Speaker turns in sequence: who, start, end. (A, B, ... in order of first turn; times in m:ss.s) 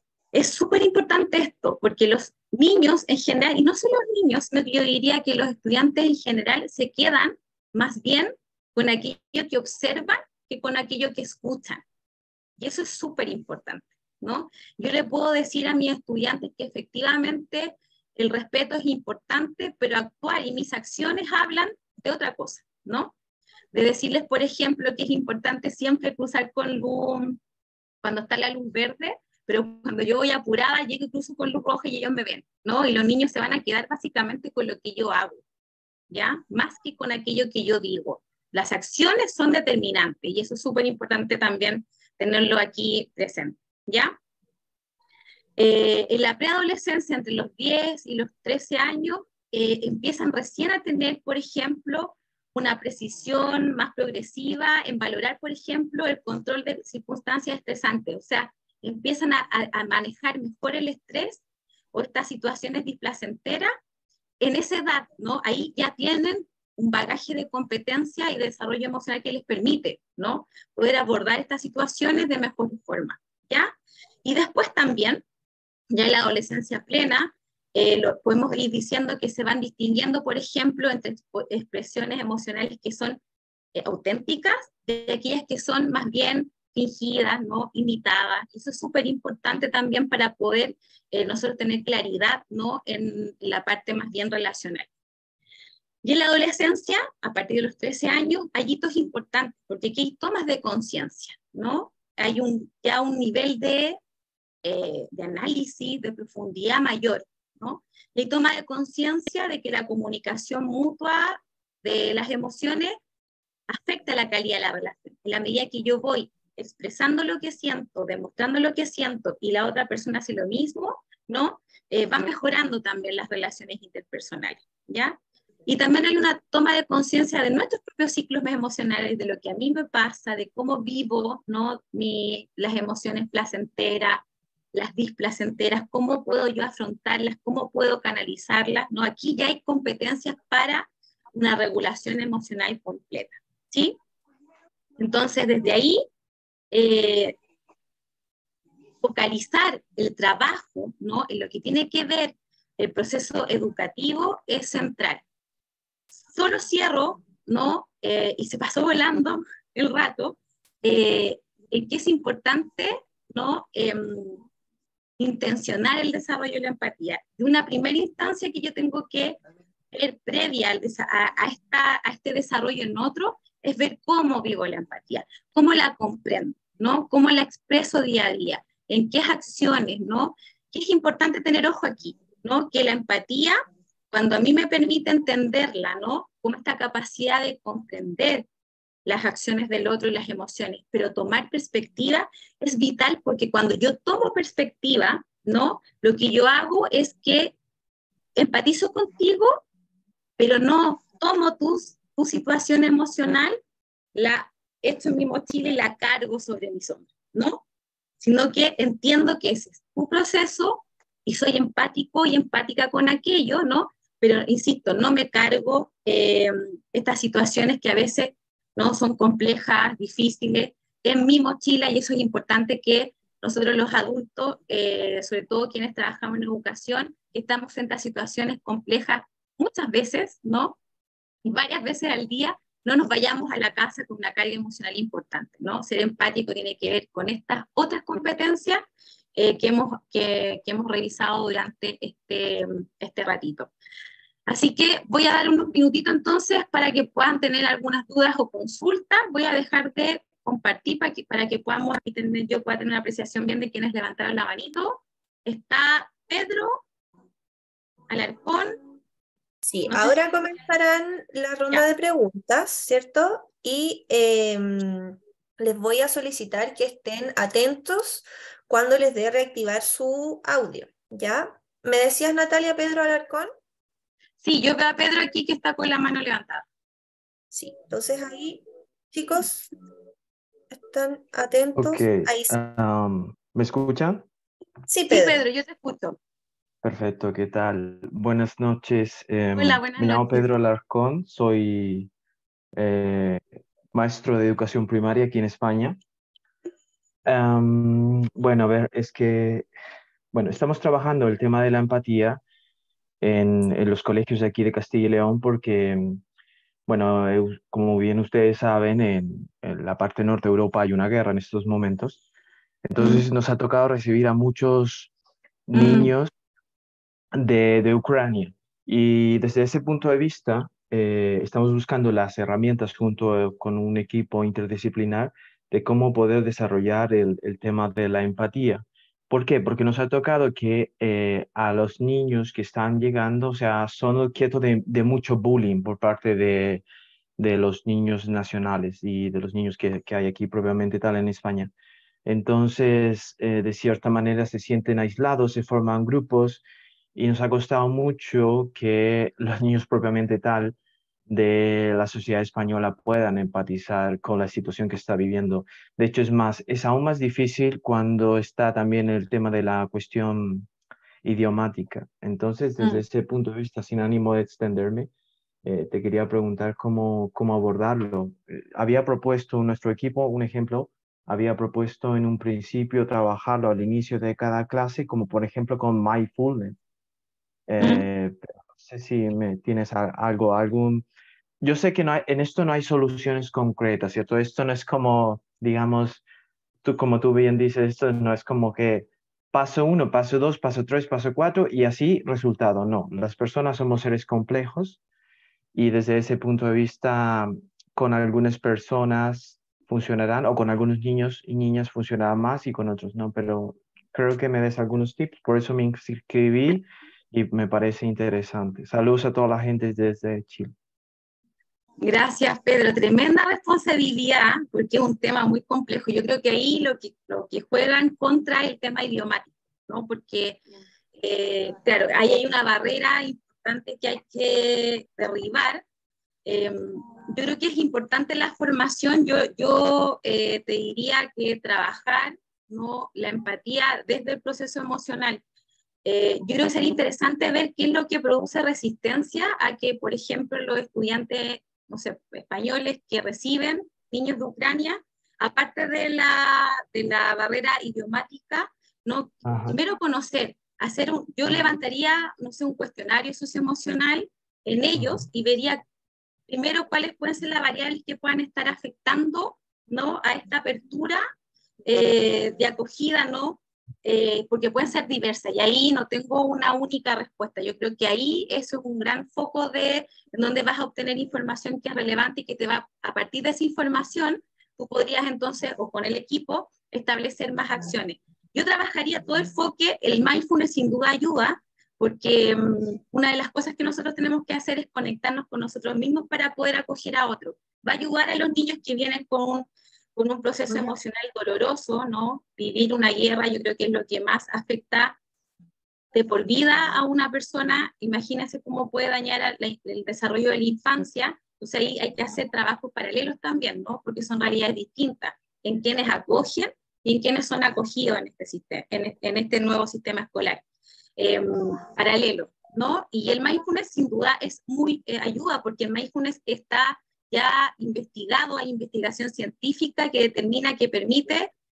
0:00.3-0:11.8 A
0:12.6-0:23.1 A
0:23.7-0:27.4 A
0:28.0-0:35.4 A
0:36.1-0:44.2 A
0:45.6-1:01.4 A
1:01.9-1:03.7 A
1:04.4-1:15.2 A
1:15.9-1:23.2 A
1:23.7-1:34.9 A
1:36.0-1:44.0 A
1:44.6-1:53.0 A
1:53.7-2:24.0 A
2:25.0-2:26.0 A
2:26.7-2:27.4 A
2:29.0-2:35.2 A
2:36.3-2:44.4 A
2:45.2-2:49.4 A
2:49.9-3:03.6 A
3:04.1-3:08.5 A
3:09.0-3:17.5 A
3:18.3-3:19.6 A
3:20.4-3:23.6 A
3:24.1-3:27.6 A
3:28.2-3:50.8 A
3:51.4-4:03.7 A
4:04.5-4:16.8 A
4:18.1-4:18.8 A
4:19.6-4:33.5 B
4:19.9-4:20.2 A
4:34.4-4:36.6 A
4:37.5-4:39.7 B
4:40.7-4:42.5 B
4:41.8-4:44.2 C
4:44.9-4:45.4 B
4:45.1-4:46.2 A
4:46.8-4:52.1 C
4:49.5-4:50.5 A
4:52.7-4:56.0 C
4:57.2-4:59.7 C
5:00.3-5:02.4 C
5:03.2-5:06.2 C
5:06.9-5:12.2 C
5:12.8-5:15.1 C
5:13.0-5:13.2 A
5:15.7-5:16.3 C
5:15.7-5:16.1 A
5:17.3-5:36.8 C
5:37.4-5:41.7 C
5:42.2-5:46.6 C
5:47.1-5:50.8 C
5:51.3-6:00.7 C
6:01.2-6:05.1 C
6:02.8-6:03.0 A
6:05.6-6:16.8 C
6:17.7-6:21.0 C
6:17.8-6:18.0 A
6:21.6-6:26.2 C
6:26.8-6:35.0 C
6:35.7-6:50.7 C
6:52.0-7:00.6 A
7:01.2-7:05.8 A
7:06.4-7:15.4 A
7:16.0-7:35.8 A
7:29.4-7:29.8 C
7:36.5-7:41.2 A
7:41.8-8:15.2 A
8:16.1-8:30.6 A
8:31.2-8:41.5 A